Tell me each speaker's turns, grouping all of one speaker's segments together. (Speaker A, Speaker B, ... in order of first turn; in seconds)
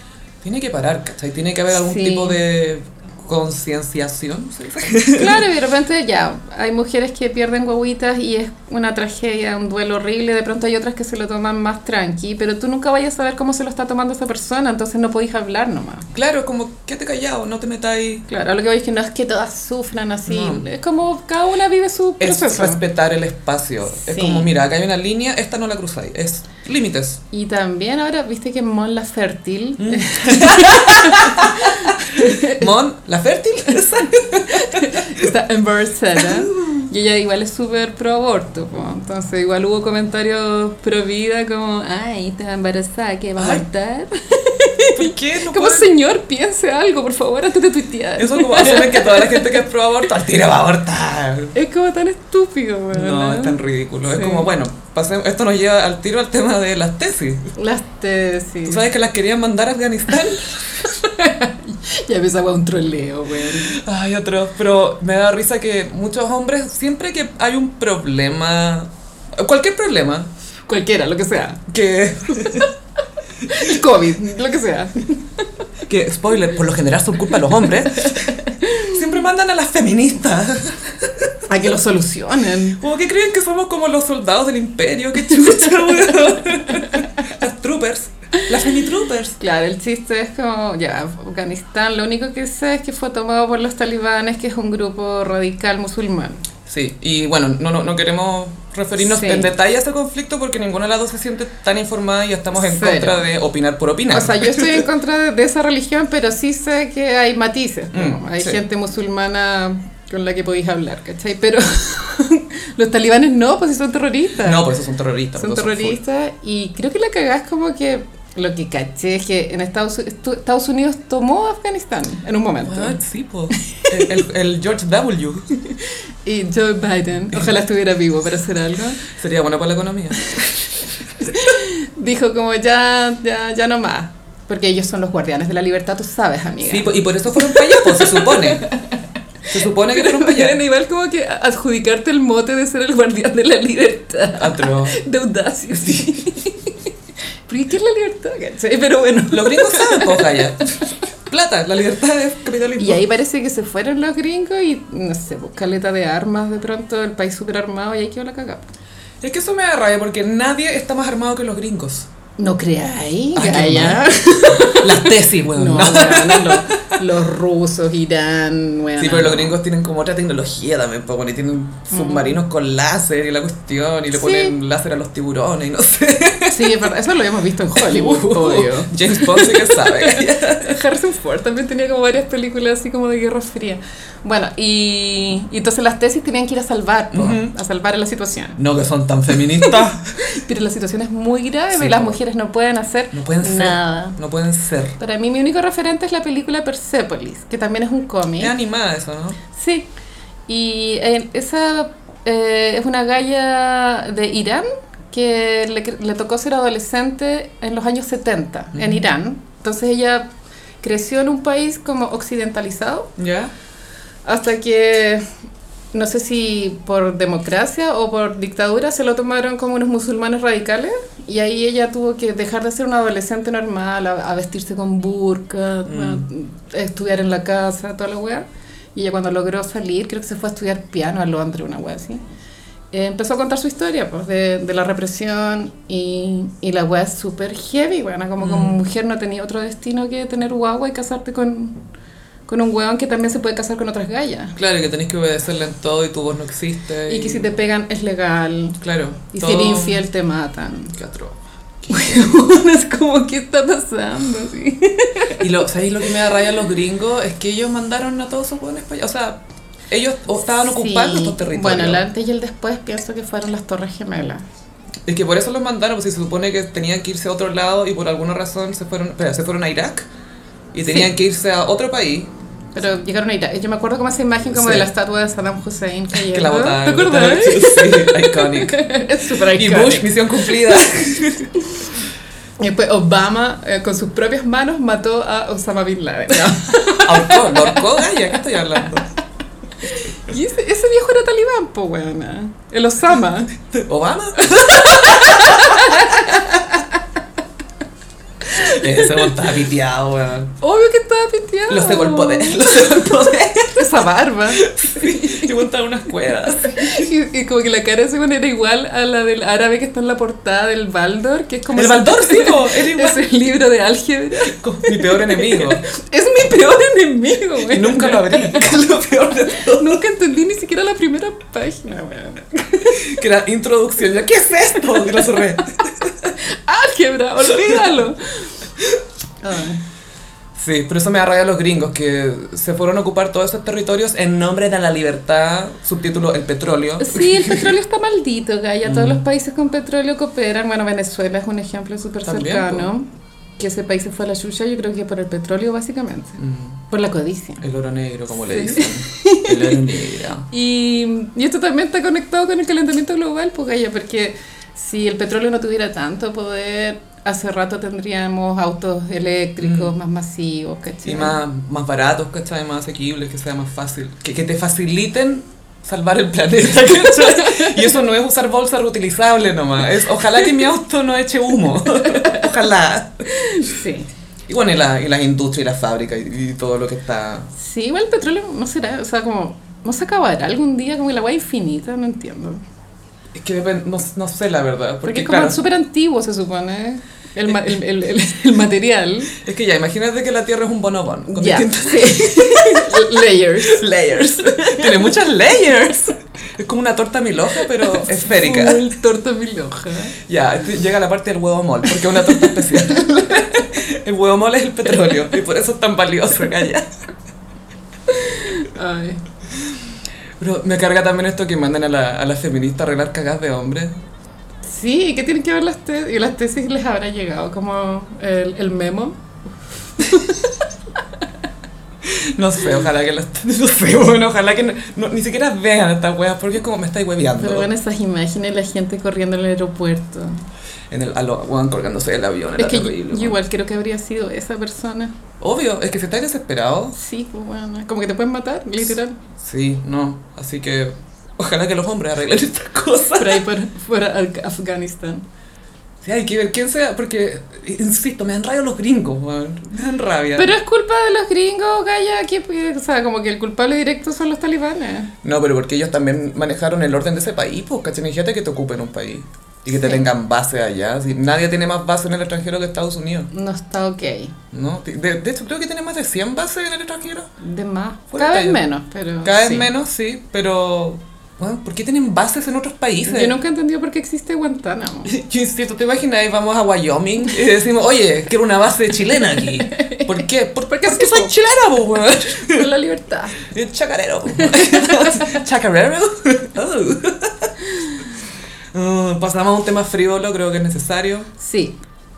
Speaker A: 0.4-5.4, 16.1-18.2, 20.3-20.6, 22.2-27.2, 29.8-35.3, 36.2-36.8, 43.4-43.6, 44.9-45.9, 48.2-51.5, 52.9-57.5, 58.6-60.8, 63.4-70.3, 71.7-72.7, 75.9-81.4, 82.8-89.4, 96.7-104.8, 107.9-108.6, 114.4-116.0, 122.6-125.5, 129.1-130.4, 136.6-138.7, 139.5-140.6, 144.4-145.0, 149.3-153.0, 159.2-162.1, 163.3-166.9, 169.0-176.9, 177.8-180.8, 187.1-187.5, 188.6-190.0, 191.7-192.2, 193.1-195.0, 198.4-199.4, 208.8-209.0, 213.2-213.5, 225.8-226.2, 238.4-238.8, 244.6-247.5, 248.8-250.0, 250.9-252.3, 255.4-262.0, 265.1-270.1, 270.7-272.3, 274.5-274.9, 276.1-281.5, 286.9-289.1, 293.7-296.3, 298.5-300.5, 301.7-307.1, 311.7-313.2, 314.5-315.8, 317.7-320.0, 322.9-326.3, 327.4-328.0, 330.6-337.7, 338.8-339.2, 342.2-342.9, 346.4-346.8, 347.6-350.5, 359.6-359.9, 361.0-373.3, 374.5-377.5, 383.3-385.6, 389.4-398.8, 400.2-406.9, 410.4-413.9, 422.0-427.7, 430.9-433.4, 435.4-436.9, 439.4-443.4, 446.0-450.5, 455.2-463.3, 464.5-467.3, 468.1-468.6, 469.2-473.4, 475.1-482.7, 483.4-487.5, 488.7-491.3
Speaker B: 1.7-2.4, 5.1-16.1, 18.3-22.8, 24.0-24.5, 27.3-32.7, 34.3-49.6, 51.5-54.5, 57.5-58.8, 60.8-63.8, 70.7-71.7, 73.4-75.5, 77.9-79.0, 81.5-82.8, 85.8-86.1, 89.4-96.4, 98.9-99.5, 102.6-103.2, 104.1-114.7, 115.3-123.0, 123.6-124.1, 126.2-129.0, 131.2-139.0, 139.8-146.9, 147.5-150.8, 152.8-158.7, 162.4-169.6, 171.9-172.3, 174.1-174.5, 176.5-188.6, 189.6-194.2, 195.0-198.5, 199.5-199.9, 200.5-210.3, 210.8-213.1, 214.2-215.2, 215.9-232.2, 232.9-241.8, 242.5-244.6, 247.1-248.8, 249.3-251.0, 251.9-255.4, 260.7-264.4, 270.8-271.1, 272.7-280.9, 282.6-288.1, 289.8-293.6, 294.4-297.0, 298.5-299.4, 300.6-303.1, 303.7-305.6, 306.6-318.8, 319.4-323.2, 325.0-325.6, 326.4-328.5, 329.4-329.8, 337.0-343.1, 343.6-347.6, 348.3-349.9, 350.5-361.4, 367.0-367.8, 372.0-372.4, 373.3-374.1, 377.5-382.6, 385.0-389.4, 391.3-395.1, 397.8-400.2, 402.2-402.7, 408.1-409.2, 414.6-419.2, 419.9-420.6, 427.4-430.4, 432.6-435.1, 436.9-439.2, 443.1-445.2, 450.4-455.1, 459.7-460.1, 463.3-464.4, 467.4-469.7, 473.0-475.1, 479.6-481.3, 482.4-483.4, 484.4-485.3, 491.4-491.8